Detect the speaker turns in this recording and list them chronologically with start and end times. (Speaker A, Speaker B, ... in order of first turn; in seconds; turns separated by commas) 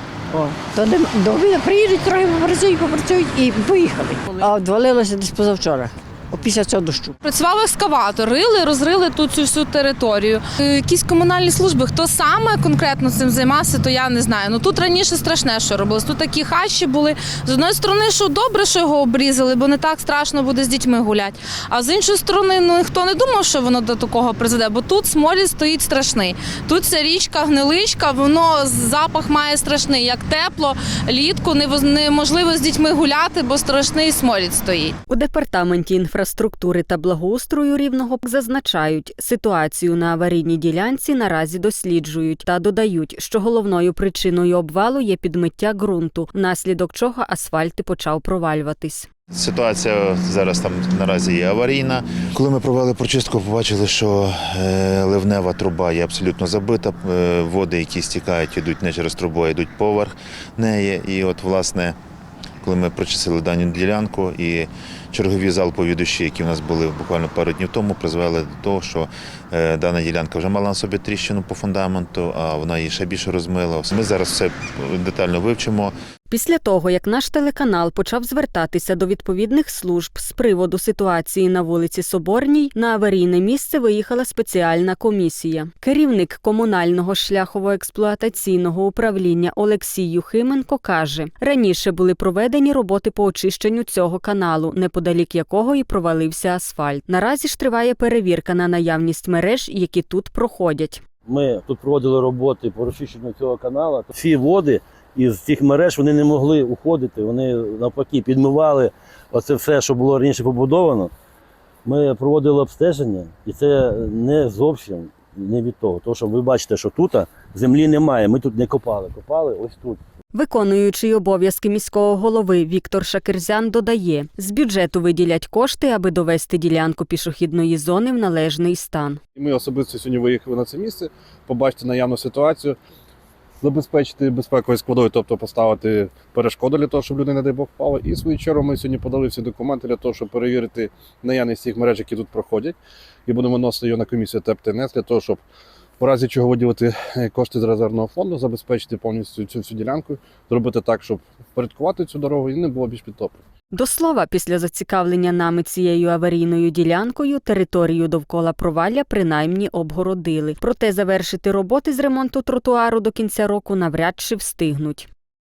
Speaker A: 0.3-7.2, Speaker B: 7.2-35.0, Speaker C: 35.1-49.1, Speaker D: 49.3-62.0, Speaker D: 62.6-75.9, Speaker C: 76.3-101.0, Speaker E: 101.3-111.1, Speaker E: 111.8-120.0, Speaker C: 120.3-129.2, Speaker F: 129.4-132.8, Speaker F: 133.6-142.8, Speaker F: 143.3-145.4, Speaker F: 146.0-153.4, Speaker C: 153.7-165.1